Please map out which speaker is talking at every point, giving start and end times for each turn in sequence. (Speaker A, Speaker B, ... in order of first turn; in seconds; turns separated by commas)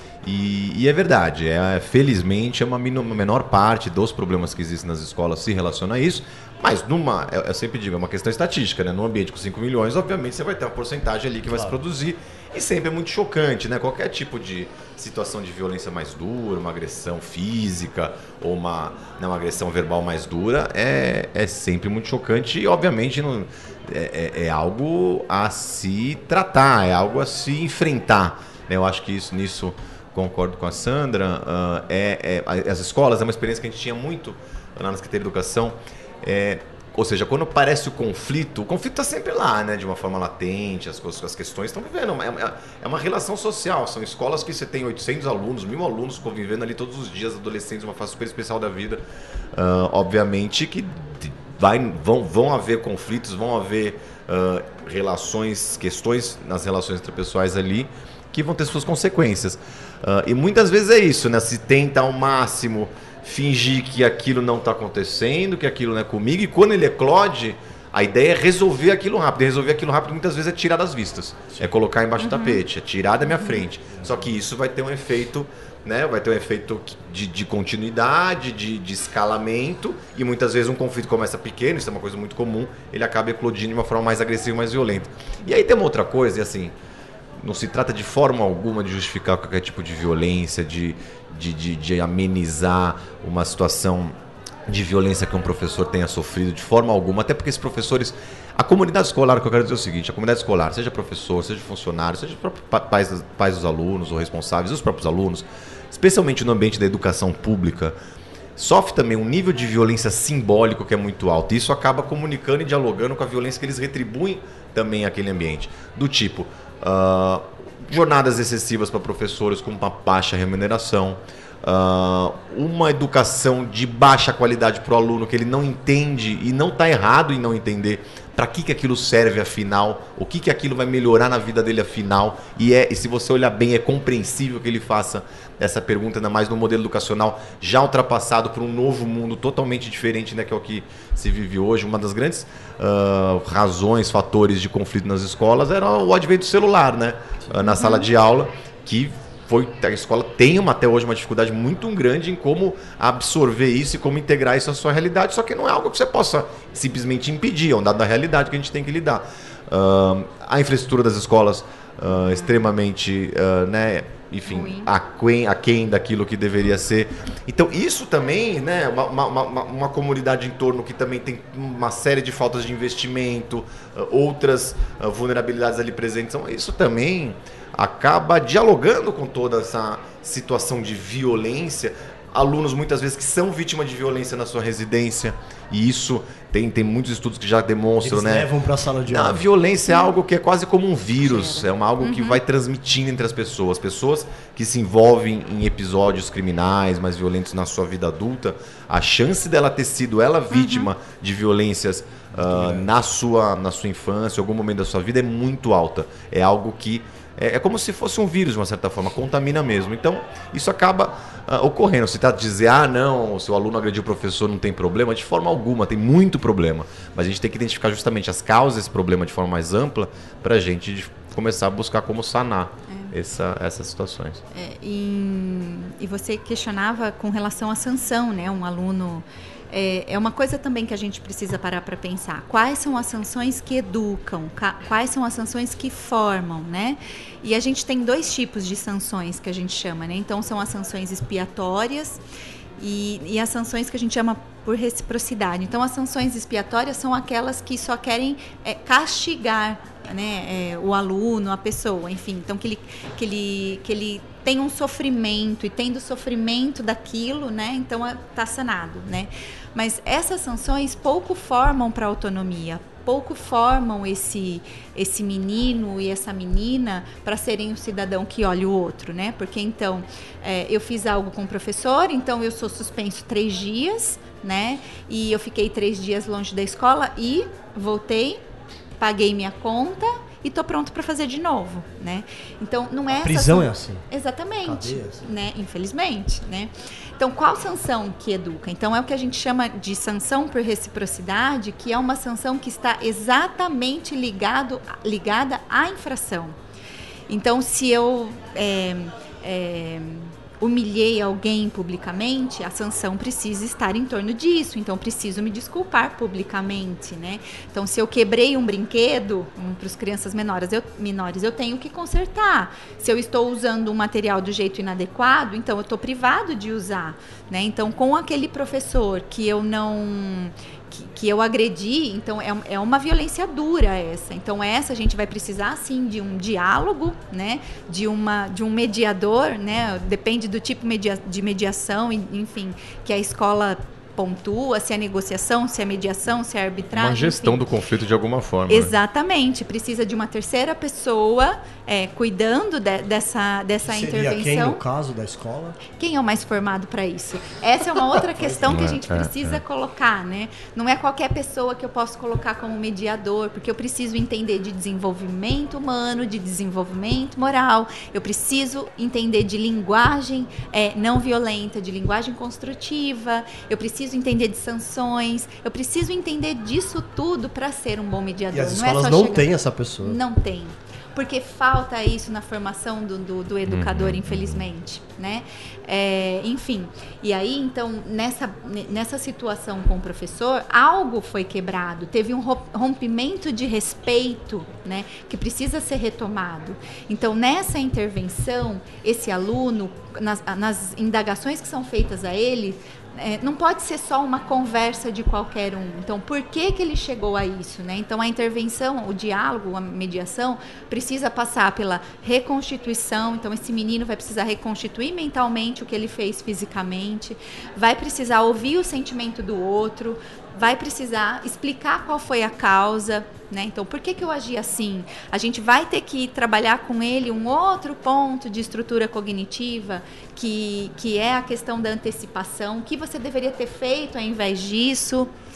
Speaker A: 0.2-49.0, Speaker B: 11.5-11.8, Speaker A: 49.5-86.7, Speaker C: 72.2-72.6, Speaker B: 74.0-74.2, Speaker A: 87.4-94.1, Speaker A: 94.7-108.0, Speaker A: 108.6-188.5, Speaker C: 147.6-148.1, Speaker C: 164.5-164.9, Speaker B: 188.0-189.4, Speaker A: 189.1-224.4, Speaker C: 191.2-192.4, Speaker C: 200.5-200.9, Speaker B: 202.3-202.9, Speaker C: 222.9-223.1, Speaker C: 224.5-242.2, Speaker C: 242.8-278.4, Speaker C: 279.0-296.6, Speaker B: 283.1-284.0, Speaker B: 284.6-285.2, Speaker C: 297.3-337.6, Speaker A: 336.9-338.9, Speaker C: 338.7-344.8, Speaker B: 343.8-345.8, Speaker C: 346.0-425.3, Speaker B: 348.4-349.0, Speaker A: 348.6-349.6, Speaker B: 368.5-370.2, Speaker A: 373.7-374.6